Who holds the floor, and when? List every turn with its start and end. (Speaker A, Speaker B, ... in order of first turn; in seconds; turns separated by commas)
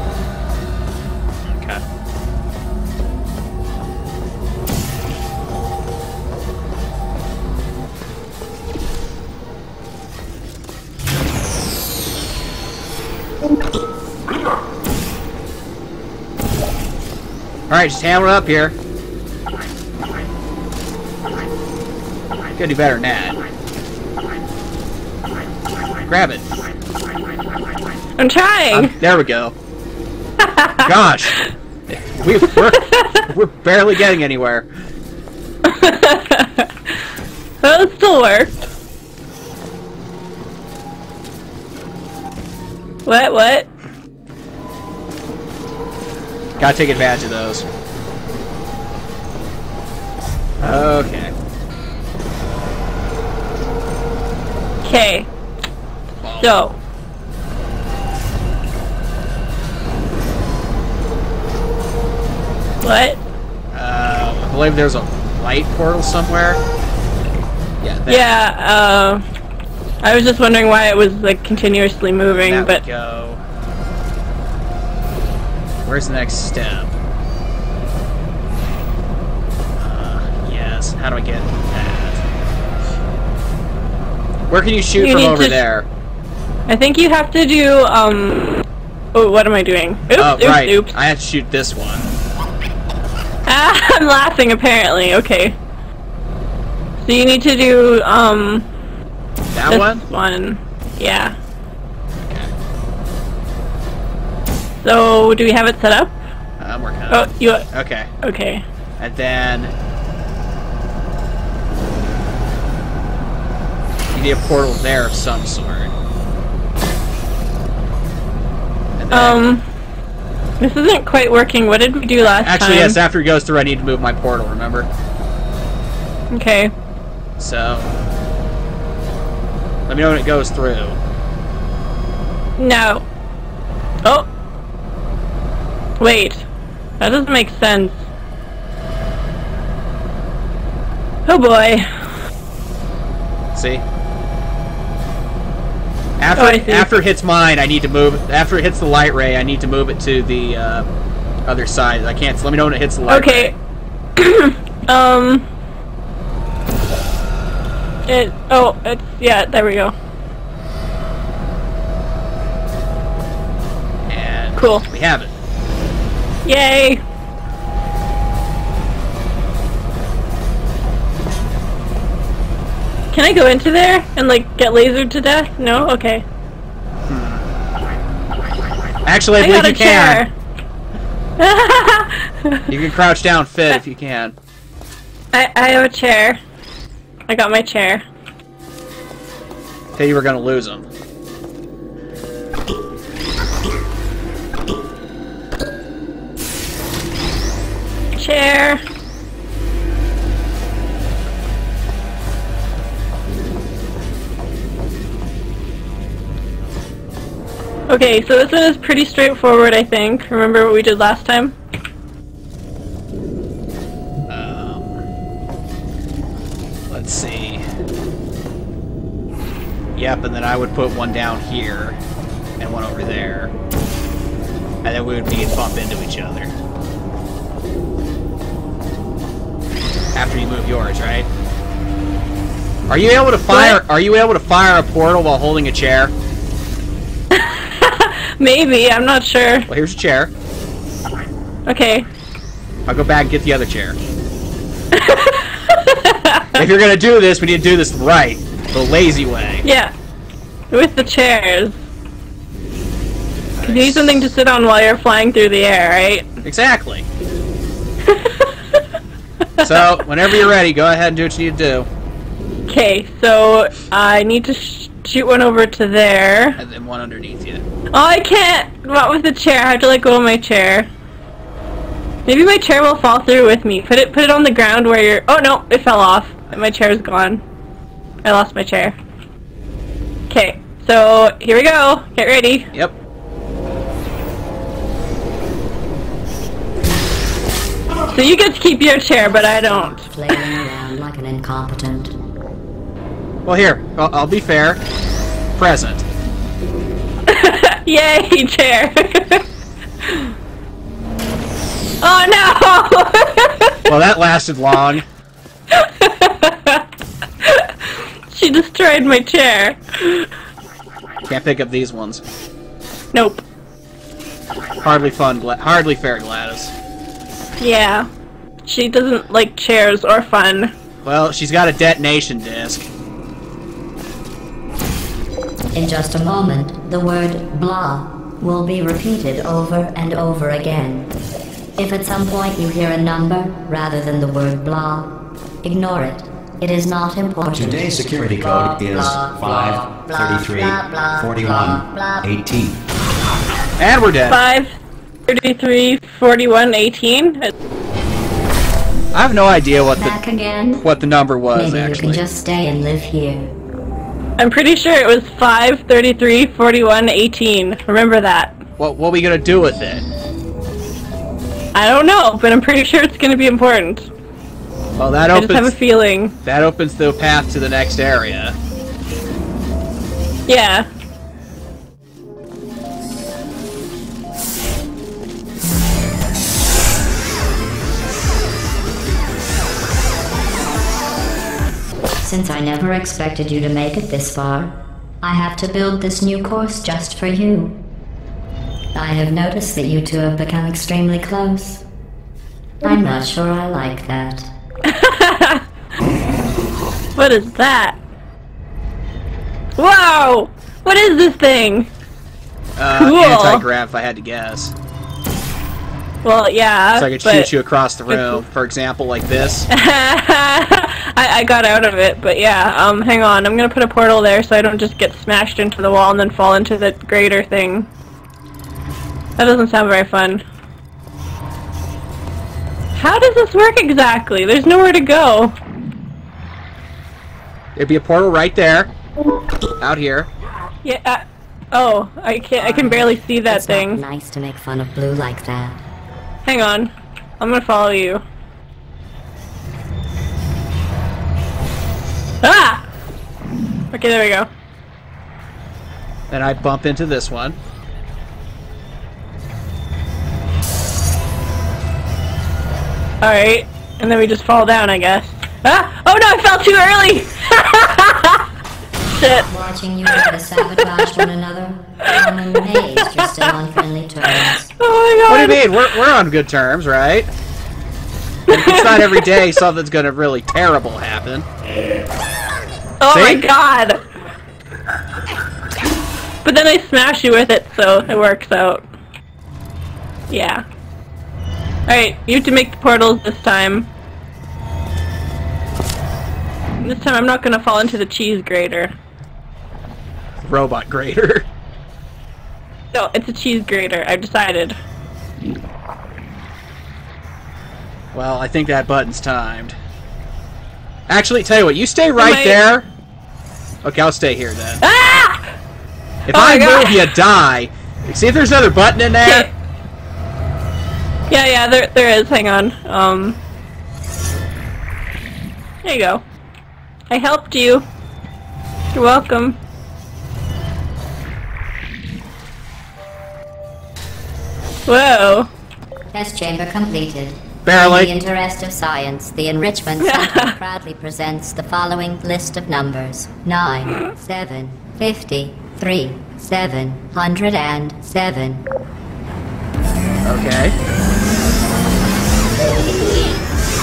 Speaker A: 1.5-1.8, Speaker A: 17.7-18.7, Speaker A: 22.6-23.4, Speaker A: 26.1-26.4, Speaker B: 28.2-28.9, Speaker A: 28.7-29.5, Speaker B: 30.4-30.9, Speaker A: 30.8-31.4, Speaker A: 31.9-34.7, Speaker B: 32.6-33.2, Speaker B: 35.6-36.9, Speaker B: 37.6-38.5, Speaker B: 43.0-43.7, Speaker A: 46.6-47.6, Speaker A: 50.6-51.3, Speaker B: 54.8-55.3, Speaker A: 56.2-56.6, Speaker B: 56.4-56.8, Speaker B: 62.8-63.2, Speaker A: 63.7-66.6, Speaker A: 67.8-68.3, Speaker B: 68.1-69.2, Speaker B: 70.0-72.8, Speaker A: 72.2-73.4, Speaker A: 75.8-76.9, Speaker A: 79.8-82.2, Speaker A: 84.5-85.9, Speaker B: 85.0-85.6, Speaker B: 86.7-90.9, Speaker A: 90.2-92.1, Speaker B: 93.5-95.5, Speaker B: 97.0-98.7, Speaker A: 99.5-100.0, Speaker B: 99.7-101.3, Speaker A: 102.2-102.5, Speaker B: 104.8-106.1, Speaker A: 106.6-108.1, Speaker B: 107.1-107.7, Speaker B: 108.2-108.6, Speaker A: 109.0-109.7, Speaker A: 114.1-115.9, Speaker A: 119.0-119.5, Speaker B: 119.1-119.6, Speaker B: 120.6-123.0, Speaker A: 122.2-124.9, Speaker B: 126.3-126.7, Speaker A: 127.4-127.9, Speaker A: 129.9-131.0, Speaker B: 132.6-133.0, Speaker B: 136.0-136.4, Speaker B: 137.0-138.0, Speaker B: 141.2-141.8, Speaker A: 143.5-143.8, Speaker A: 146.2-150.8, Speaker B: 146.3-146.9, Speaker A: 151.4-153.5, Speaker B: 153.1-153.5, Speaker B: 154.2-155.5, Speaker B: 158.1-159.9, Speaker A: 164.1-165.3, Speaker B: 164.6-164.8, Speaker B: 166.4-167.0, Speaker B: 173.1-176.2, Speaker A: 177.1-177.4, Speaker A: 179.1-180.3, Speaker B: 179.4-180.3, Speaker B: 181.4-182.7, Speaker A: 182.7-184.3, Speaker B: 185.3-186.4, Speaker B: 187.3-188.0, Speaker A: 190.0-190.8, Speaker B: 198.2-198.8, Speaker B: 207.9-211.5, Speaker A: 214.3-215.0, Speaker A: 216.9-217.6, Speaker A: 219.9-222.0, Speaker A: 222.6-223.5, Speaker A: 224.8-226.5, Speaker A: 230.1-231.3, Speaker A: 232.9-236.1, Speaker B: 233.5-233.8, Speaker B: 237.3-239.7, Speaker A: 239.7-240.3, Speaker B: 241.7-242.1, Speaker A: 242.9-244.0, Speaker B: 244.9-246.6, Speaker A: 246.5-249.7, Speaker B: 249.6-249.9, Speaker B: 250.7-251.7, Speaker A: 253.6-254.1, Speaker B: 253.6-256.3, Speaker A: 256.4-257.1, Speaker B: 258.1-258.8, Speaker B: 259.6-259.9, Speaker A: 259.6-261.9, Speaker B: 262.7-266.6, Speaker A: 266.6-267.6, Speaker B: 267.9-270.9, Speaker B: 272.2-277.4, Speaker B: 278.2-278.9, Speaker B: 280.3-282.7, Speaker B: 288.1-290.0, Speaker C: 289.7-292.1, Speaker A: 293.4-294.8, Speaker A: 295.6-296.0, Speaker B: 297.3-299.4, Speaker B: 300.0-300.3, Speaker B: 302.0-303.8, Speaker A: 303.9-305.0, Speaker B: 305.7-306.8, Speaker B: 307.4-307.7, Speaker B: 308.3-310.3, Speaker A: 311.3-312.2, Speaker B: 313.1-313.4, Speaker A: 314.8-316.7, Speaker B: 317.6-318.1, Speaker B: 318.6-320.7, Speaker A: 321.0-322.9, Speaker C: 325.7-331.1, Speaker C: 331.8-342.3, Speaker D: 337.5-342.8, Speaker A: 343.8-344.4, Speaker B: 344.3-344.7, Speaker B: 345.3-347.5, Speaker A: 349.1-350.2, Speaker C: 349.9-350.8, Speaker A: 350.8-352.2, Speaker C: 351.5-353.5, Speaker B: 354.4-358.6, Speaker A: 358.8-360.0, Speaker B: 361.7-364.1, Speaker A: 365.0-365.7, Speaker B: 365.3-366.3, Speaker A: 366.4-368.6, Speaker B: 370.5-370.9, Speaker C: 382.2-387.8, Speaker C: 388.9-391.8, Speaker C: 392.8-394.5, Speaker B: 394.9-395.6, Speaker B: 397.1-398.0, Speaker B: 399.8-401.9, Speaker A: 402.8-404.7, Speaker B: 402.9-403.6, Speaker B: 406.2-407.5, Speaker A: 406.9-409.7, Speaker B: 408.1-408.4, Speaker B: 409.7-417.9, Speaker B: 419.4-420.4, Speaker B: 422.9-425.5, Speaker A: 427.8-428.9, Speaker A: 429.8-430.3, Speaker B: 430.8-434.0, Speaker C: 432.6-435.8, Speaker B: 436.4-438.2, Speaker B: 442.4-442.8, Speaker B: 443.9-444.5, Speaker A: 446.3-447.6, Speaker B: 453.2-458.4, Speaker B: 459.1-459.5, Speaker C: 459.5-464.7, Speaker B: 462.1-463.5, Speaker B: 464.8-465.8, Speaker A: 465.3-467.3, Speaker A: 468.5-471.4, Speaker B: 468.5-469.4, Speaker B: 473.0-474.0, Speaker A: 473.1-473.5, Speaker B: 476.4-478.8, Speaker B: 480.3-480.6, Speaker B: 481.9-483.9, Speaker B: 486.8-488.9, Speaker A: 490.4-491.4, Speaker B: 492.9-494.7, Speaker A: 498.1-499.7, Speaker A: 501.1-502.9, Speaker B: 502.2-502.6, Speaker A: 503.8-504.8, Speaker B: 504.8-505.4, Speaker A: 506.3-509.5, Speaker B: 506.3-507.1, Speaker B: 509.2-509.5, Speaker B: 511.3-513.4, Speaker B: 515.8-516.2, Speaker B: 517.1-517.9, Speaker B: 518.9-519.6, Speaker B: 524.9-525.5, Speaker C: 526.1-538.6, Speaker A: 527.6-528.1, Speaker B: 530.0-530.5, Speaker A: 540.2-540.7